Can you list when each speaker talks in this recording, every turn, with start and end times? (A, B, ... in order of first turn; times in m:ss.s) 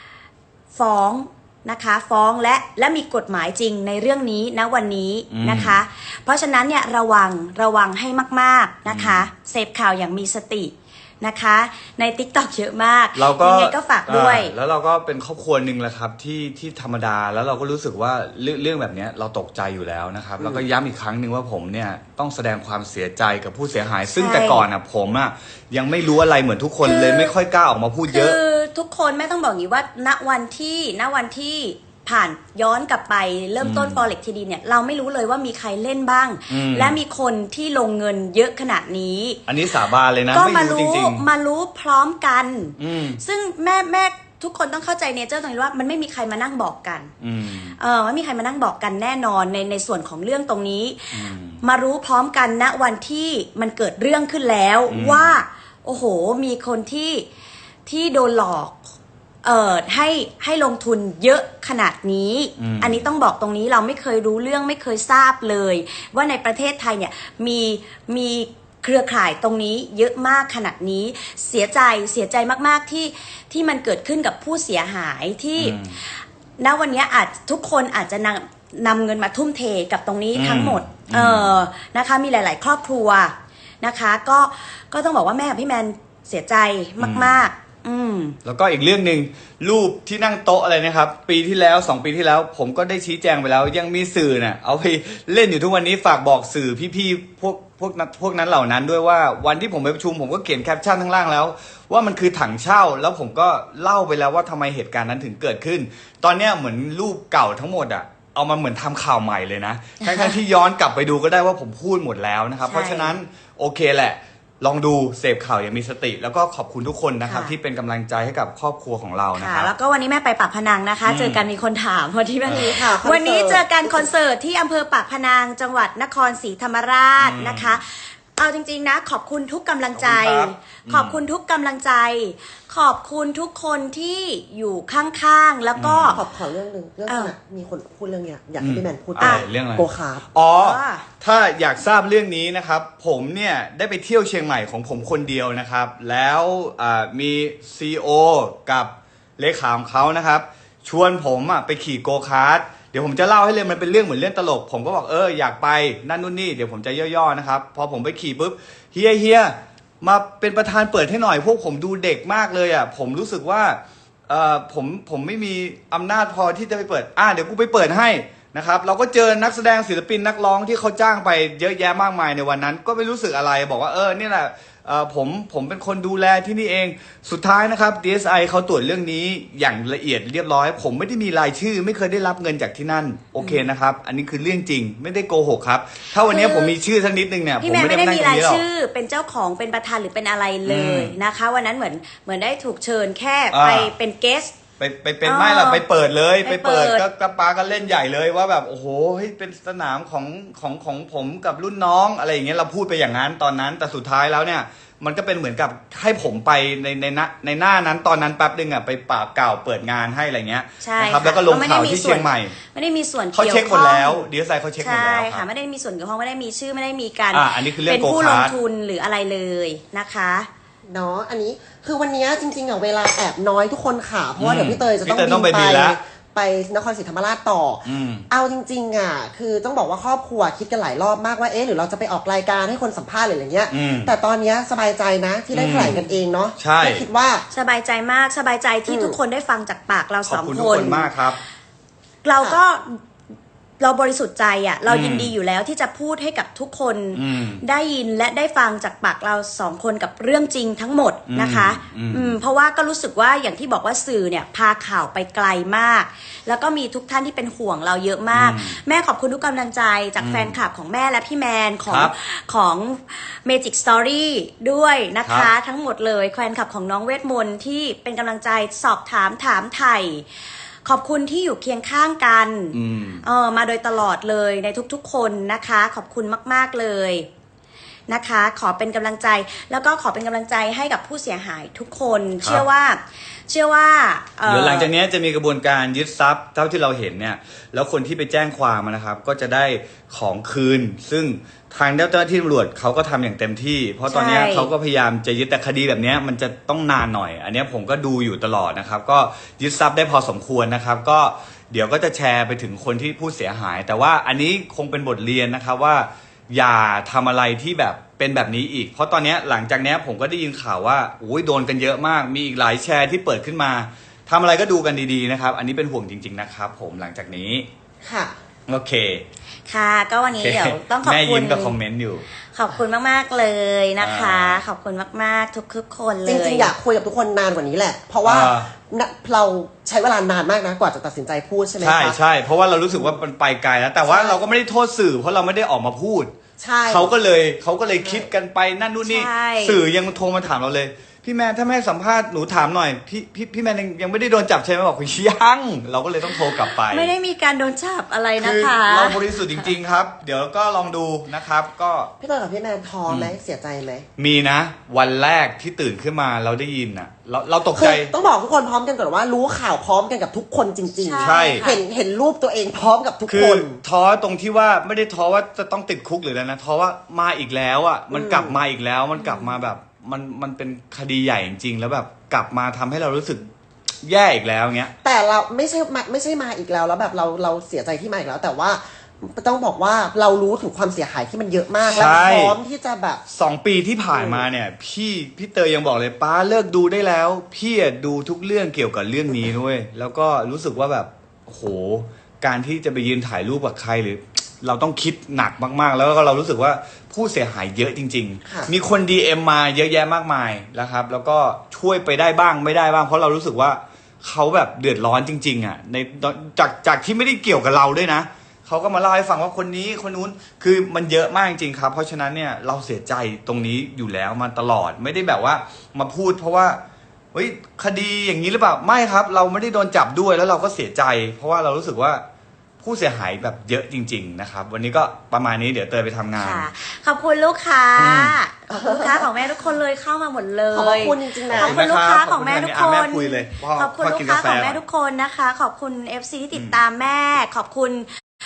0:00.7-0:14.5 A
0:05.3-0:05.8 B
0:08.8-0:09.3 B
0:13.1-0:28.4 B
0:20.4-0:20.6 C
0:24.1-0:24.6 A
0:26.8-0:27.3 A
0:28.1-0:39.4 A
0:33.6-0:34.0 B
0:36.5-0:37.0 B
0:39.5-0:41.2 B
0:40.3-0:47.1 A
0:42.8-0:43.2 B
0:47.2-0:47.8 B
0:47.8-0:57.2 A
0:51.1-0:51.6 B
0:54.9-0:55.4 B
0:57.9-0:58.8 A
0:59.4-1:16.1 A
1:02.6-1:03.0 B
1:15.6-1:16.0 B
1:16.6-1:28.4 A
1:20.3-1:21.5 B
1:27.0-1:27.4 B
1:28.4-1:59.7 B
1:50.0-1:50.4 A
1:52.6-1:53.2 A
1:57.2-1:57.5 A
1:59.4-2:16.2 A
2:01.0-2:01.4 B
2:02.4-2:02.9 B
2:02.5-2:04.1 C
2:07.2-2:07.8 B
2:10.0-2:11.2 B
2:15.8-2:16.2 B
2:16.1-2:20.2 C
2:17.1-2:17.3 A
2:18.6-3:08.6 B
2:19.2-2:19.5 A
2:20.6-2:21.0 A
3:06.1-3:06.7 A
3:07.6-3:14.5 A
3:10.6-3:11.1 B
3:13.5-3:13.9 B
3:14.8-3:32.5 B
3:15.2-3:15.8 A
3:16.4-3:17.0 A
3:30.8-3:34.2 A
3:33.3-3:35.4 B
3:34.8-3:40.5 A
3:37.3-3:38.5 B
3:40.9-3:57.5 C
3:44.4-3:46.0 B
3:47.8-3:48.2 B
3:53.7-3:54.1 B
3:55.5-3:56.0 B
3:56.6-3:57.0 B
3:57.5-4:01.1 A
3:58.9-3:59.2 C
4:00.2-4:01.4 B
4:02.2-4:03.0 A
4:03.8-4:30.2 A
4:04.9-4:05.3 B
4:07.1-4:07.6 B
4:11.3-4:12.3 B
4:18.3-4:18.8 B
4:20.2-4:20.6 B
4:21.9-4:22.1 B
4:25.2-4:25.5 B
4:30.8-4:37.3 A
4:32.7-4:33.2 B
4:38.1-4:44.9 A
4:44.4-5:17.7 B
4:54.1-4:54.7 A
5:18.0-5:18.3 C
5:18.7-5:19.2 B
5:19.7-5:21.7 A
5:20.3-5:22.3 B
5:22.5-5:26.7 A
5:24.0-5:24.6 B
5:26.2-5:32.2 C
5:28.2-5:28.7 B
5:31.8-5:36.3 B
5:34.0-5:34.4 C
5:36.6-5:37.1 C
5:36.9-5:47.1 B
5:38.0-5:38.3 C
5:39.0-5:39.8 A
5:46.3-5:49.7 A
5:48.4-5:52.1 B
5:52.2-5:54.0 C
5:53.1-5:53.4 B
5:54.2-5:58.1 B
5:57.7-6:03.8 C
6:01.0-6:01.8 A
6:01.2-6:01.7 B
6:03.3-6:13.5 B
6:08.1-6:08.6 C
6:09.2-6:09.5 A
6:14.0-6:14.9 B
6:15.0-6:23.2 C
6:21.8-6:22.6 B
6:23.3-6:56.8 B
6:24.1-6:24.4 C
6:57.3-7:02.2 B
7:02.8-7:06.7 B
7:06.4-7:18.1 A
7:08.0-7:08.4 B
7:08.7-7:09.3 C
7:10.7-7:11.8 C
7:11.5-7:14.8 B
7:16.5-7:16.8 B